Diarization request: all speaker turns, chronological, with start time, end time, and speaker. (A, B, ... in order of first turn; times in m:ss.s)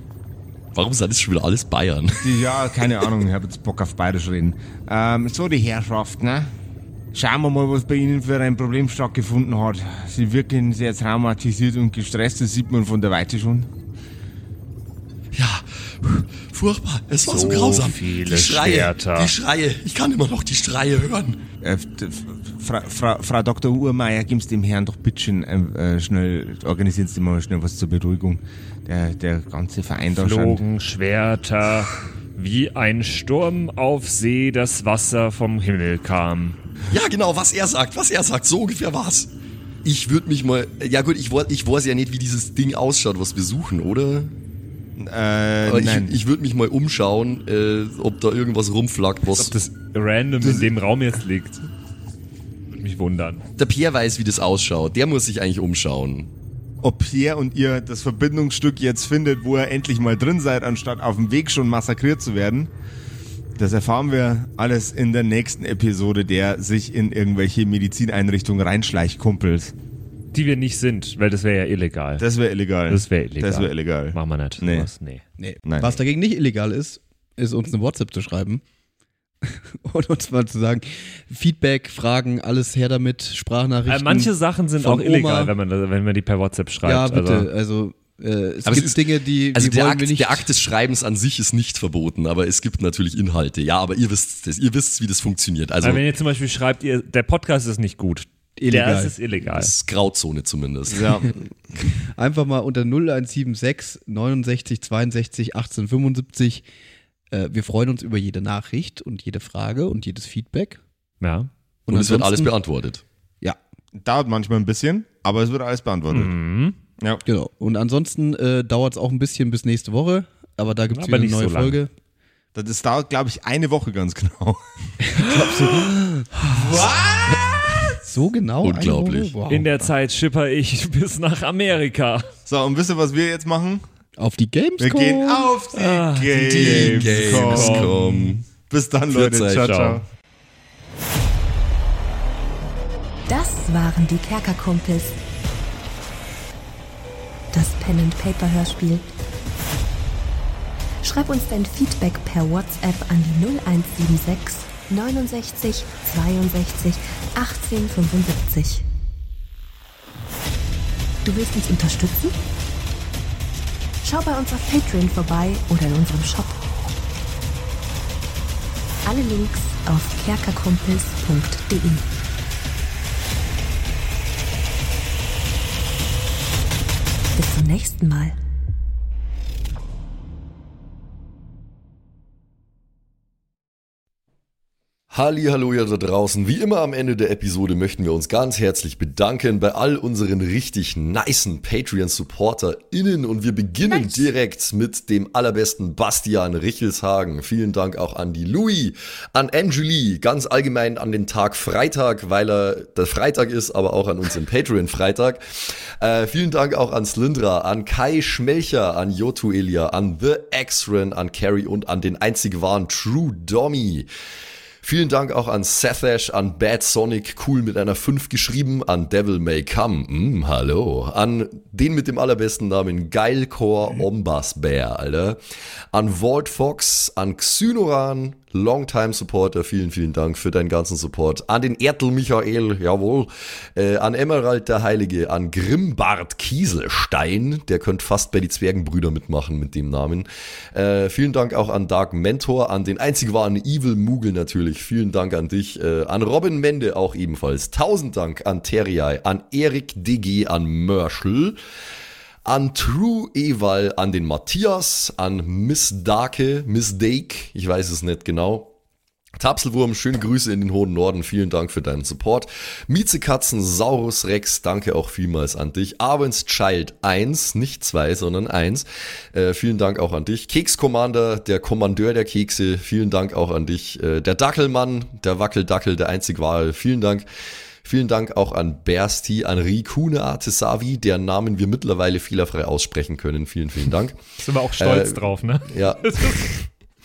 0:00.7-0:02.4 A
0:02.2-0:06.5 B
0:07.1-0:13.7 B
0:15.3-0:21.4 A
0:17.2-0:19.3 C
0:21.6-0:30.6 B
0:30.1-0:36.6 C
0:36.9-0:39.3 A
0:39.8-0:44.3 A
0:45.0-0:46.1 B
0:45.6-0:49.5 A
0:49.3-0:51.6 C
0:50.4-0:50.7 B
0:52.7-0:53.4 C
0:53.6-0:56.3 A
0:56.8-1:02.7 B
1:03.6-1:09.7 B
1:10.3-1:12.2 C
1:12.2-1:14.9 B
1:12.9-1:15.2 C
1:15.4-1:18.6 D
1:15.7-1:16.0 B
1:19.4-1:25.5 D
1:23.9-1:27.5 C
1:26.8-1:30.5 D
1:28.6-1:36.0 A
1:35.8-1:39.7 C
1:38.6-1:39.1 D
1:39.4-1:41.3 A
1:40.9-1:41.4 B
1:42.1-1:46.6 D
1:47.3-1:50.8 D
1:51.2-1:51.5 C
1:51.9-1:52.5 D
1:51.9-1:53.0 A
1:53.9-1:56.3 B
1:56.1-1:56.8 C
1:57.2-2:01.9 D
2:00.9-2:01.8 C
2:02.5-2:04.6 B
2:05.0-2:06.9 D
2:06.5-2:07.7 B
2:08.0-2:09.7 D
2:08.6-2:09.3 A
2:09.5-2:12.3 C
2:12.4-2:13.8 B
2:14.2-2:15.5 D
2:14.8-2:18.0 B
2:15.7-2:18.4 C
2:16.5-2:18.4 A
2:18.7-2:20.0 B
2:19.1-2:19.8 A
2:19.5-2:20.0 C
2:23.3-2:25.2 E
2:27.5-2:29.1 E
2:31.0-2:38.8 E
2:41.2-2:42.3 E
2:44.0-2:46.6 E
2:49.0-2:52.0 E
2:57.3-2:58.3 E
3:05.1-3:34.1 A
3:13.8-3:14.3 E
3:34.8-3:45.4 A
3:45.9-4:11.6 A
4:12.4-4:18.7 A
4:19.4-4:37.2 A
4:37.8-4:44.2 A
4:44.4-4:46.6 C
4:44.8-4:46.3 A